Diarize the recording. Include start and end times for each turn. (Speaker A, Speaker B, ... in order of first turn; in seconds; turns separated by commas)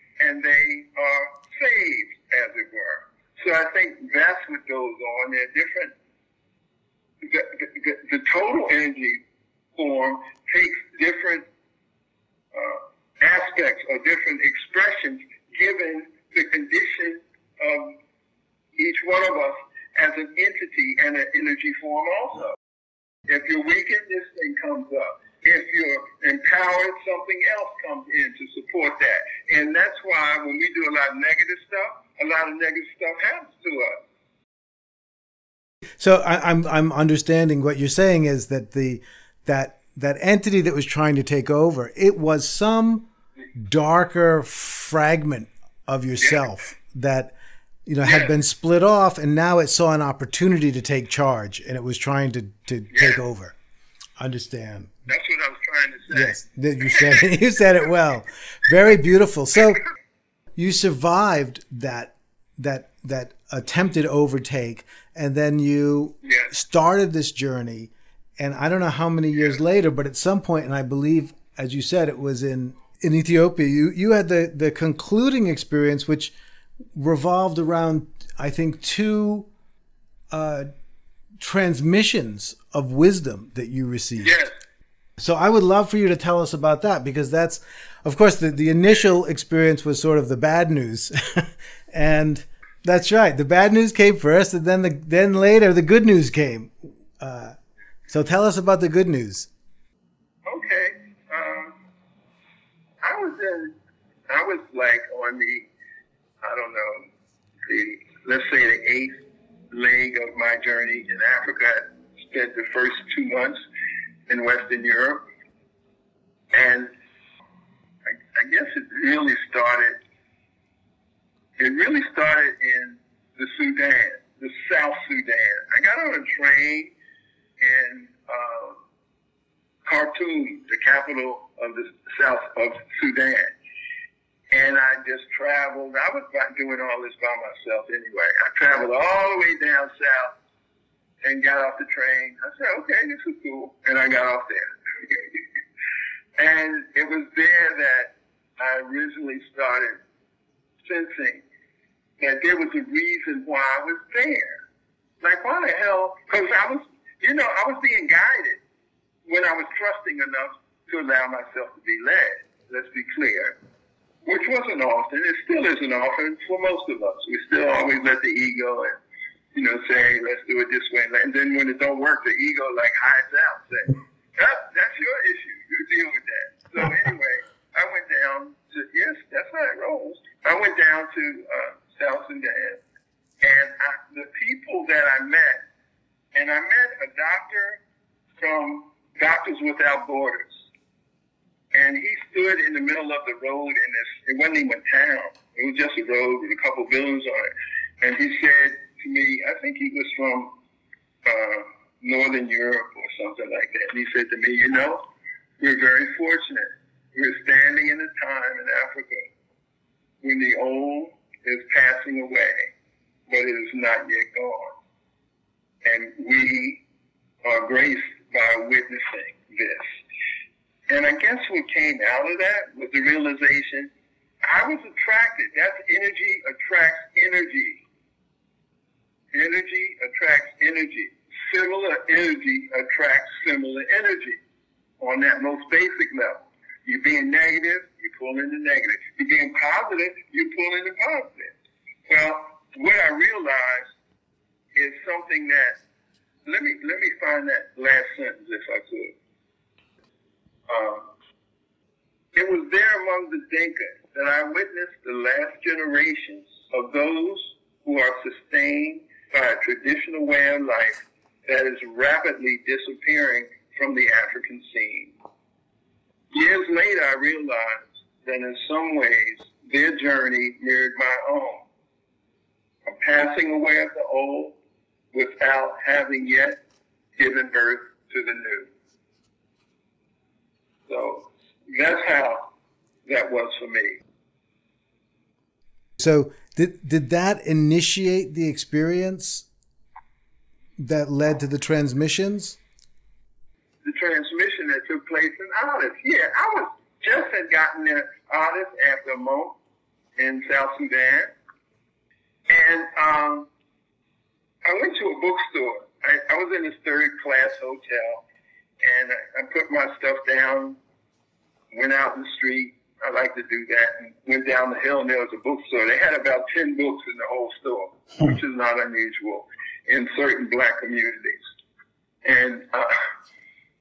Speaker A: 0.2-5.9, Speaker A: 7.2-9.2, Speaker A: 9.8-11.4, Speaker A: 12.5-18.0, Speaker A: 18.8-22.5, Speaker A: 23.3-34.0, Speaker B: 36.0-47.3, Speaker B: 47.9-53.5, Speaker A: 48.0-48.3, Speaker A: 52.9-53.2, Speaker B: 54.2-54.9, Speaker A: 55.1-56.4, Speaker B: 56.1-59.8, Speaker A: 56.9-57.2, Speaker B: 60.5-76.3, Speaker A: 66.2-66.5, Speaker B: 76.9-79.5, Speaker B: 80.3-80.7, Speaker B: 81.4-84.3, Speaker A: 84.2-84.5, Speaker B: 85.2-97.5, Speaker B: 98.1-99.5, Speaker A: 100.5-101.7, Speaker A: 103.0-103.7, Speaker A: 104.3-105.7, Speaker A: 106.4-107.1, Speaker A: 107.7-109.2, Speaker A: 109.7-113.6, Speaker A: 114.3-115.2, Speaker A: 116.5-116.9, Speaker A: 118.0-120.0, Speaker A: 121.6-126.9, Speaker A: 127.6-128.8, Speaker A: 129.8-133.5, Speaker A: 134.5-140.3, Speaker A: 141.2-145.4, Speaker A: 146.4-150.0, Speaker A: 150.8-151.4, Speaker A: 152.2-154.6, Speaker A: 155.2-158.6, Speaker A: 159.3-163.6, Speaker A: 164.2-169.0, Speaker A: 169.5-182.8, Speaker A: 183.4-185.6, Speaker A: 186.3-187.8, Speaker A: 188.4-190.6, Speaker A: 191.7-200.5, Speaker A: 201.2-205.0, Speaker A: 205.6-209.3, Speaker A: 210.2-212.7, Speaker A: 213.3-214.7, Speaker A: 215.8-216.8, Speaker A: 217.4-220.0, Speaker A: 220.9-223.9, Speaker A: 224.4-227.8, Speaker A: 229.3-234.4, Speaker A: 235.0-241.5, Speaker A: 242.1-243.9, Speaker A: 244.7-245.8, Speaker A: 246.4-249.1, Speaker A: 250.7-251.1, Speaker A: 252.3-265.1, Speaker A: 266.3-271.6, Speaker A: 272.9-274.6, Speaker A: 275.1-276.6, Speaker A: 277.2-278.7, Speaker A: 280.9-282.4, Speaker A: 283.1-284.0, Speaker B: 286.0-289.5, Speaker B: 290.8-292.6, Speaker A: 293.8-299.6, Speaker A: 300.2-301.3, Speaker A: 302.5-303.5, Speaker A: 304.6-308.2, Speaker A: 308.8-310.8, Speaker A: 311.7-321.4, Speaker A: 322.2-323.0